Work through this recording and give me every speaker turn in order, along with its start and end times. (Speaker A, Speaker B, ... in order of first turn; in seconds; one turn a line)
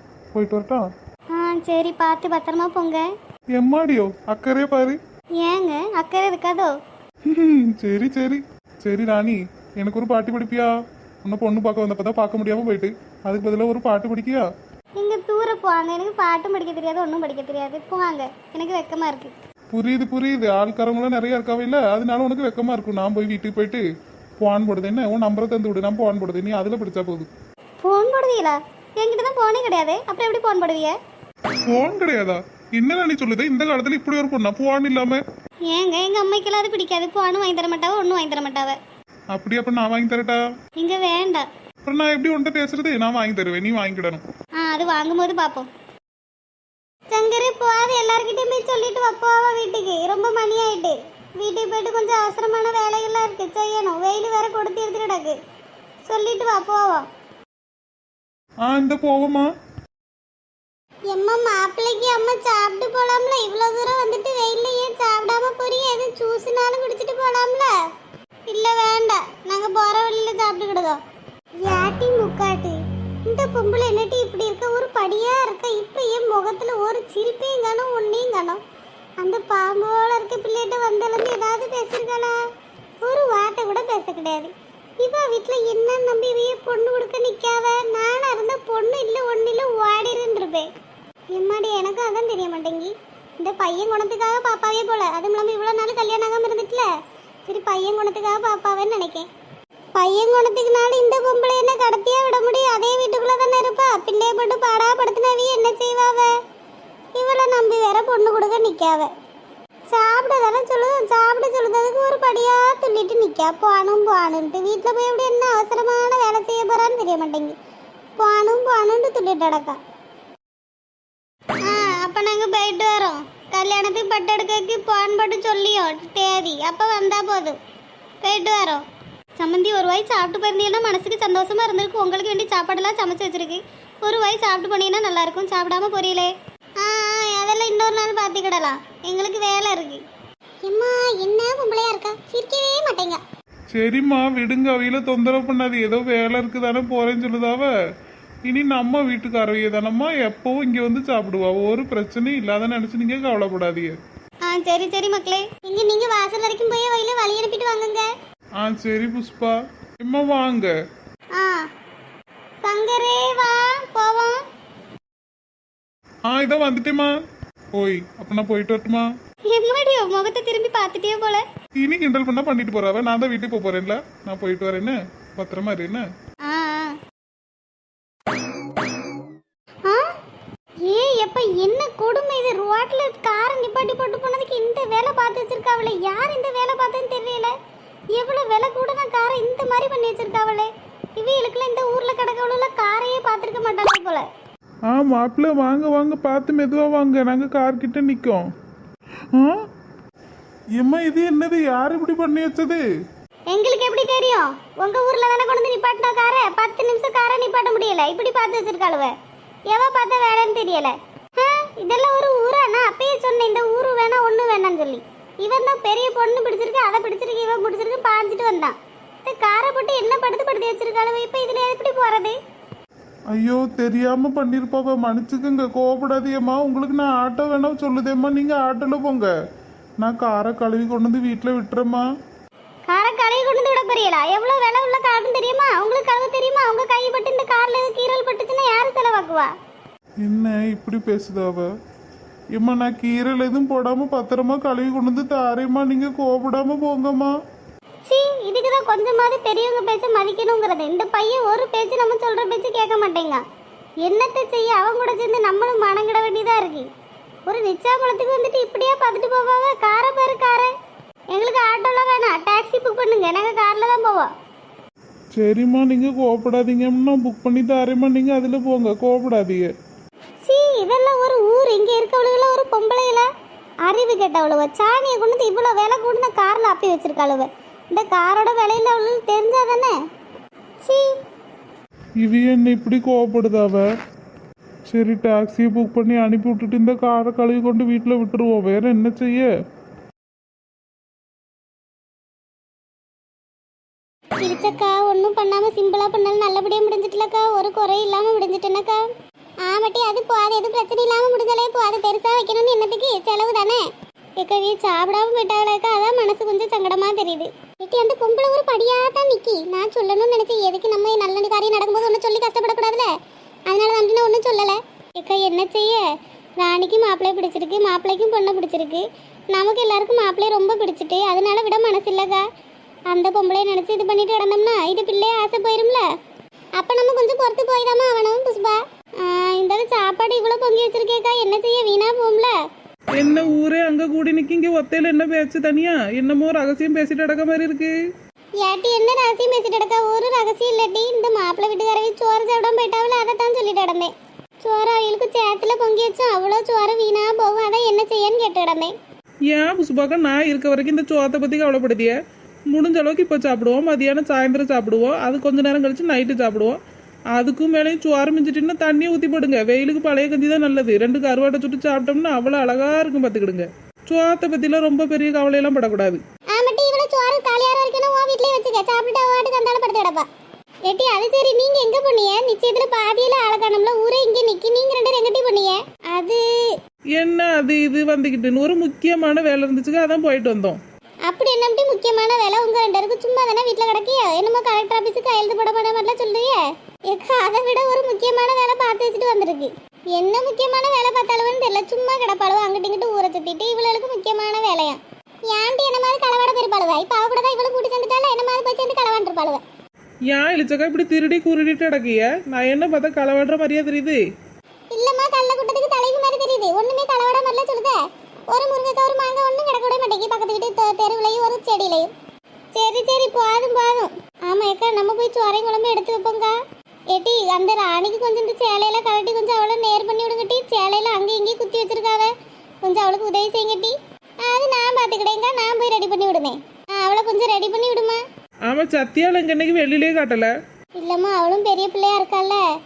Speaker A: 0.3-0.9
Speaker B: 1.3-3.1
Speaker A: 3.5-5.0
Speaker B: 5.4-6.7
Speaker A: 7.3-10.7
Speaker A: 11.2-14.5
Speaker B: 15.0-19.4
Speaker A: 19.7-23.8
Speaker A: 24.4-27.3
Speaker B: 27.8-30.9
Speaker A: 31.7-35.2
Speaker B: 35.7-38.8
Speaker A: 39.3-40.4
Speaker B: 40.8-41.5
Speaker A: 41.9-44.2
Speaker B: 44.6-45.7
Speaker B: 47.1-55.4
Speaker B: 56.0-57.1
Speaker A: 58.6-59.5
Speaker B: 61.1-67.7
Speaker B: 68.5-71.0
Speaker B: 71.6-78.6
Speaker B: 79.2-82.4
Speaker B: 83.0-90.7
Speaker B: 91.3-96.9
Speaker B: 97.5-99.3
Speaker B: 100.0-106.3
Speaker B: 107.2-109.1
Speaker B: 109.9-117.6
Speaker B: 118.2-119.8
Speaker B: 121.6-127.6
Speaker B: 128.2-128.8
Speaker B: 129.4-140.0
Speaker B: 140.6-143.2
Speaker A: 143.7-147.7
Speaker A: 148.5-153.9
Speaker B: 154.4-158.1
Speaker A: 158.6-160.7
Speaker B: 161.4-161.7
Speaker B: 162.6-164.4
Speaker A: 166.3-167.2
Speaker A: 167.7-169.1
Speaker B: 169.5-171.4
Speaker A: 171.8-176.1
Speaker B: 176.4-177.0
Speaker B: 180.8-187.5
Speaker B: 188.1-194.3
Speaker A: 194.9-198.4
Speaker A: 200.8-202.8
Speaker B: 203.5-209.1
Speaker B: 209.7-222.4
Speaker A: 223.3-229.3
Speaker A: 230.0-232.1
Speaker B: 232.9-239.5
Speaker A: 240.2-241.7
Speaker A: 242.5-247.3
Speaker B: 248.1-253.4
Speaker B: 254.0-256.9
Speaker B: 257.5-260.7
Speaker B: 261.3-264.3
Speaker A: 265.4-269.7
Speaker B: 270.4-273.3
Speaker B: 273.9-280.0
Speaker B: 280.8-281.1
Speaker A: 282.2-283.9
Speaker A: 284.9-289.5
Speaker B: 294.4-299.1
Speaker B: 299.6-303.8
Speaker B: 304.4-313.1
Speaker B: 313.7-316.0
Speaker B: 316.6-322.5
Speaker B: 323.1-326.1
Speaker B: 326.8-332.6
Speaker C: 333.2-337.9
Speaker B: 338.6-348.9
Speaker C: 349.5-352.1
Speaker C: 352.7-356.8
Speaker C: 357.3-366.2
Speaker B: 366.5-370.3
Speaker B: 370.9-376.6
Speaker C: 377.2-380.8
Speaker B: 381.3-399.6
Speaker C: 400.3-404.2
Speaker B: 404.9-408.0
Speaker B: 408.5-412.1
Speaker B: 412.7-416.6
Speaker B: 417.1-422.3
Speaker B: 422.8-428.2
Speaker C: 428.7-430.5
Speaker B: 431.0-432.6